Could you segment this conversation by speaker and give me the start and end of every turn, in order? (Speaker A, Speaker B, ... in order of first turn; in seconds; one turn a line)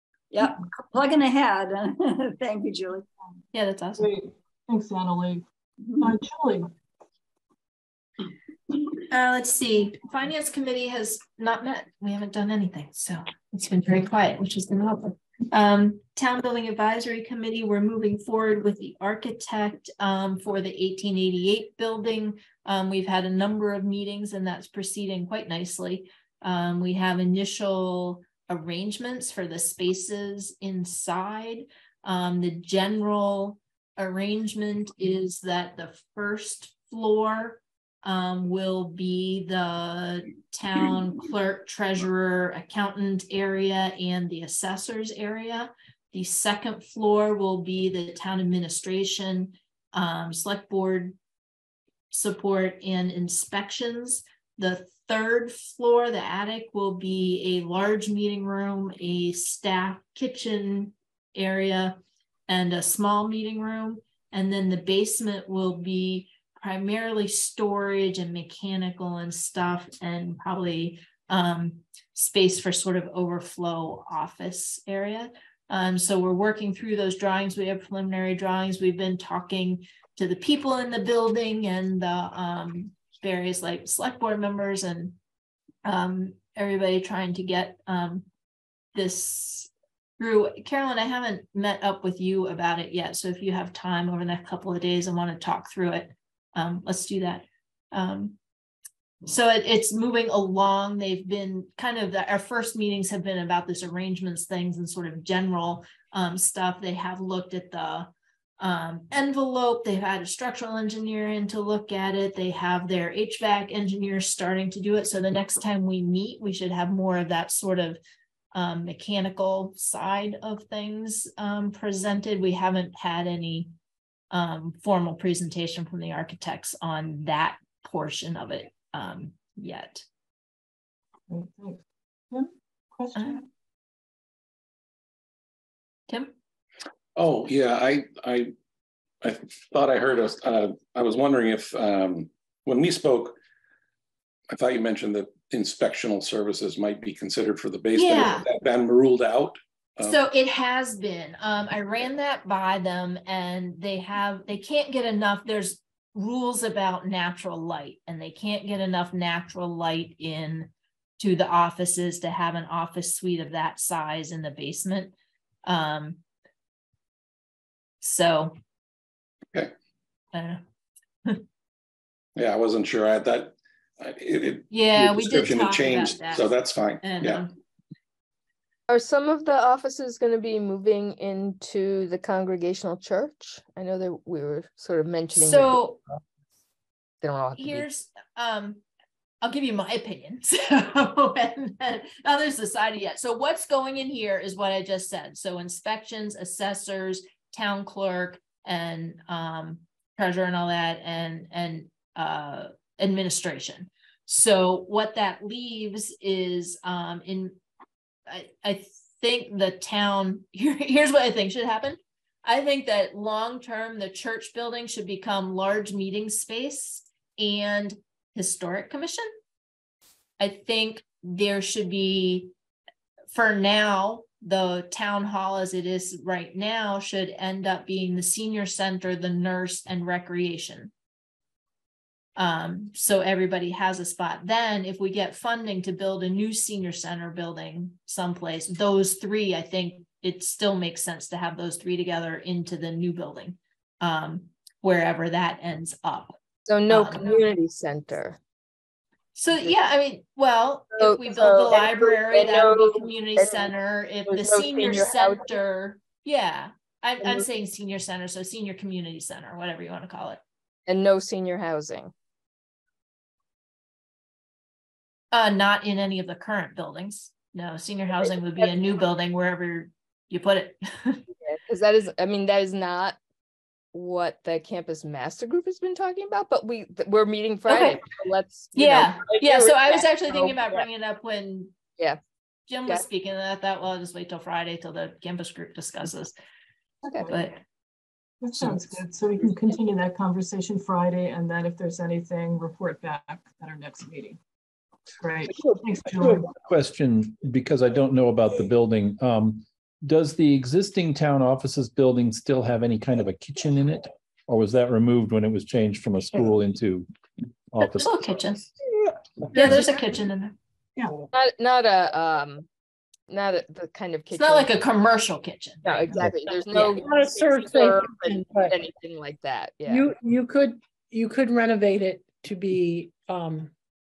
Speaker A: 0.3-3.0
Speaker B: 3.5-4.1
Speaker C: 4.0-5.4
Speaker A: 5.8-6.1
Speaker C: 6.0-6.7
Speaker B: 9.1-51.2
Speaker B: 52.1-85.2
Speaker B: 85.8-88.3
Speaker B: 88.9-98.4
Speaker B: 99.2-118.0
Speaker B: 118.5-123.7
Speaker B: 124.3-130.0
Speaker C: 131.3-133.4
Speaker B: 136.1-136.3
Speaker D: 137.2-138.5
Speaker D: 139.2-143.3
Speaker D: 144.5-150.2
Speaker B: 147.9-148.4
Speaker B: 150.0-166.2
Speaker B: 168.0-168.5
Speaker B: 170.3-170.6
Speaker D: 172.3-177.4
Speaker B: 174.7-177.5
Speaker E: 178.9-185.8
Speaker B: 185.3-186.0
Speaker E: 187.2-187.8
Speaker B: 187.5-188.8
Speaker B: 189.4-207.6
Speaker B: 208.3-219.3
Speaker B: 220.4-222.5
Speaker B: 223.3-230.9
Speaker B: 232.3-246.4
Speaker E: 246.7-248.4
Speaker B: 246.9-247.4
Speaker B: 249.3-260.4
Speaker E: 250.9-253.7
Speaker E: 254.3-255.4
Speaker E: 260.9-262.1
Speaker B: 265.3-271.2
Speaker E: 271.4-273.2
Speaker E: 273.9-280.9
Speaker B: 277.7-278.0
Speaker B: 278.8-281.7
Speaker B: 282.7-286.3
Speaker B: 287.2-287.6
Speaker C: 288.4-294.4
Speaker C: 295.2-296.5
Speaker F: 296.2-307.1
Speaker F: 307.7-308.2
Speaker B: 307.8-308.7
Speaker B: 309.5-310.6
Speaker E: 311.3-312.7
Speaker E: 313.3-314.7
Speaker B: 314.3-317.0
Speaker E: 315.8-320.1
Speaker G: 316.7-318.8
Speaker G: 319.9-323.7